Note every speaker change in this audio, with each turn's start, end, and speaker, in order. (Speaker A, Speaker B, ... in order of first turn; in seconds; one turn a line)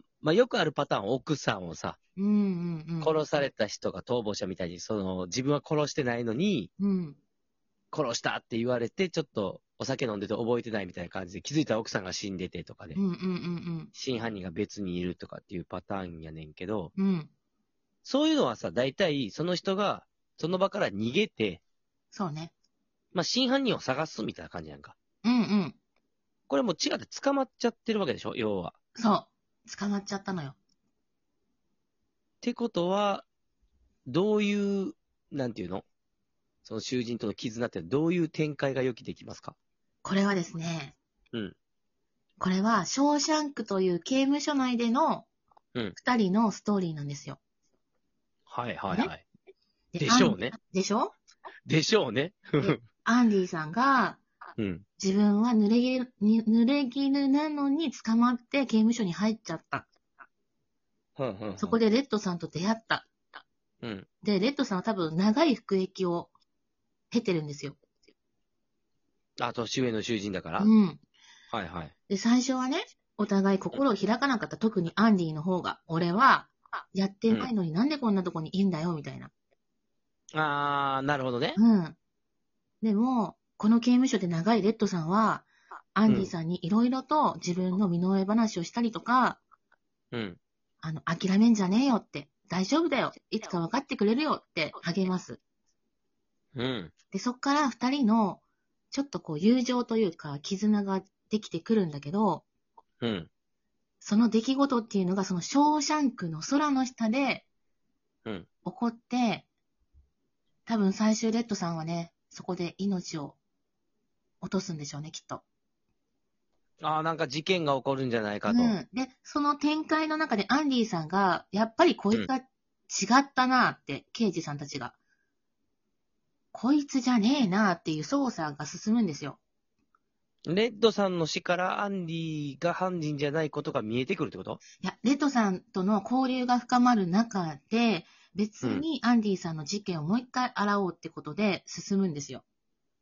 Speaker A: 0.2-2.0
Speaker B: 2.2-3.1
Speaker A: 3.0-6.7
Speaker B: 6.8-7.2
Speaker A: 7.9-13.0
Speaker B: 12.9-13.9
Speaker A: 13.9-16.9
Speaker B: 16.9-17.3
Speaker A: 18.0-21.6
Speaker B: 22.1-22.5
Speaker A: 23.1-24.9
Speaker B: 25.2-25.8
Speaker A: 26.5-28.7
Speaker B: 28.9-30.6
Speaker A: 32.4-33.2
Speaker A: 34.1-35.9
Speaker A: 36.6-39.5
Speaker B: 40.0-41.0
Speaker B: 42.4-45.2
Speaker B: 46.0-47.4
Speaker A: 48.5-49.2
Speaker B: 49.9-51.1
Speaker A: 50.0-50.5
Speaker A: 51.7-52.8
Speaker B: 52.6-54.2
Speaker A: 54.6-54.8
Speaker B: 55.0-59.9
Speaker A: 61.1-61.8
Speaker B: 61.6-63.1
Speaker A: 63.8-64.1
Speaker B: 64.2-66.3
Speaker B: 67.1-67.8
Speaker A: 69.4-70.7
Speaker B: 70.6-71.0
Speaker A: 71.5-71.9
Speaker B: 72.1-79.3
Speaker A: 80.3-81.6
Speaker B: 81.5-82.0
Speaker B: 82.8-89.4
Speaker A: 86.1-86.3
Speaker A: 90.1-90.4
Speaker B: 90.8-95.4
Speaker A: 96.5-96.9
Speaker B: 97.1-98.4
Speaker B: 98.9-102.4
Speaker A: 103.0-103.3
Speaker B: 104.0-107.4
Speaker B: 108.6-109.5
Speaker B: 110.7-113.4
Speaker B: 114.4-115.4
Speaker A: 116.8-118.8
Speaker B: 118.5-125.0
Speaker B: 126.5-129.4
Speaker A: 130.5-134.6
Speaker B: 134.8-142.4